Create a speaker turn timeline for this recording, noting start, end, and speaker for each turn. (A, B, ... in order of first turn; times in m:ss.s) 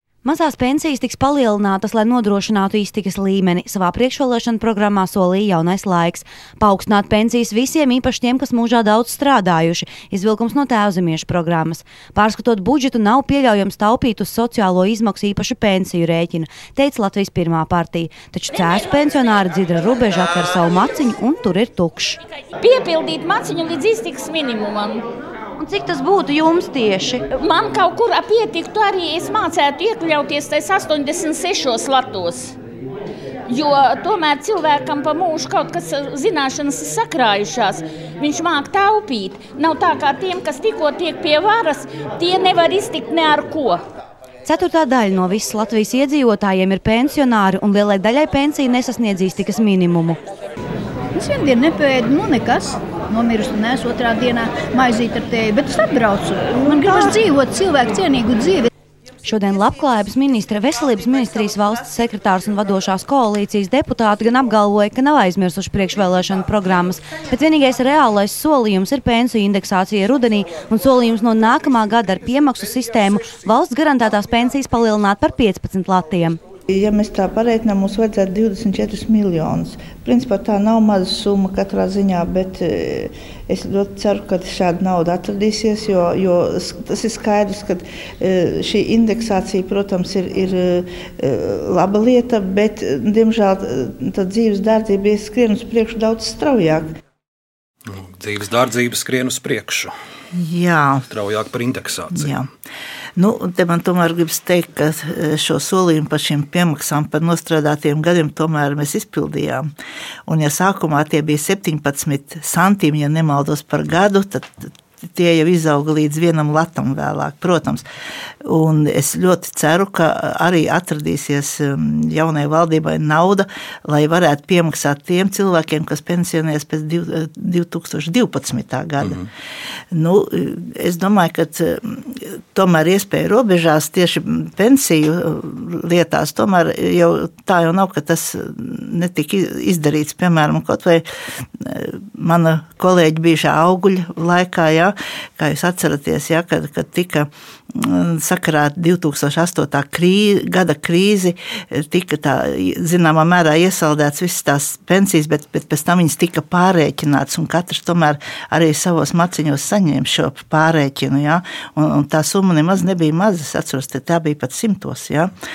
0:00.2-0:22.2 A
0:22.6-0:25.0 B
0:25.6-0:27.2 A
0:27.3-0:32.5 B
0:33.5-0:43.8 B
0:44.4-0:50.2 A
0:51.1-0:58.7 C
0:59.2-1:16.4 A
1:16.7-1:36.9 D
1:37.8-1:39.9 E
1:40.3-1:41.0 D
1:41.1-1:42.4 E
1:42.1-1:42.5 D
1:43.2-1:49.7 D
1:50.3-1:57.8 D
1:58.4-2:09.2 D
2:09.0-2:09.3 E
2:09.9-2:21.0 D
2:21.6-2:45.3 D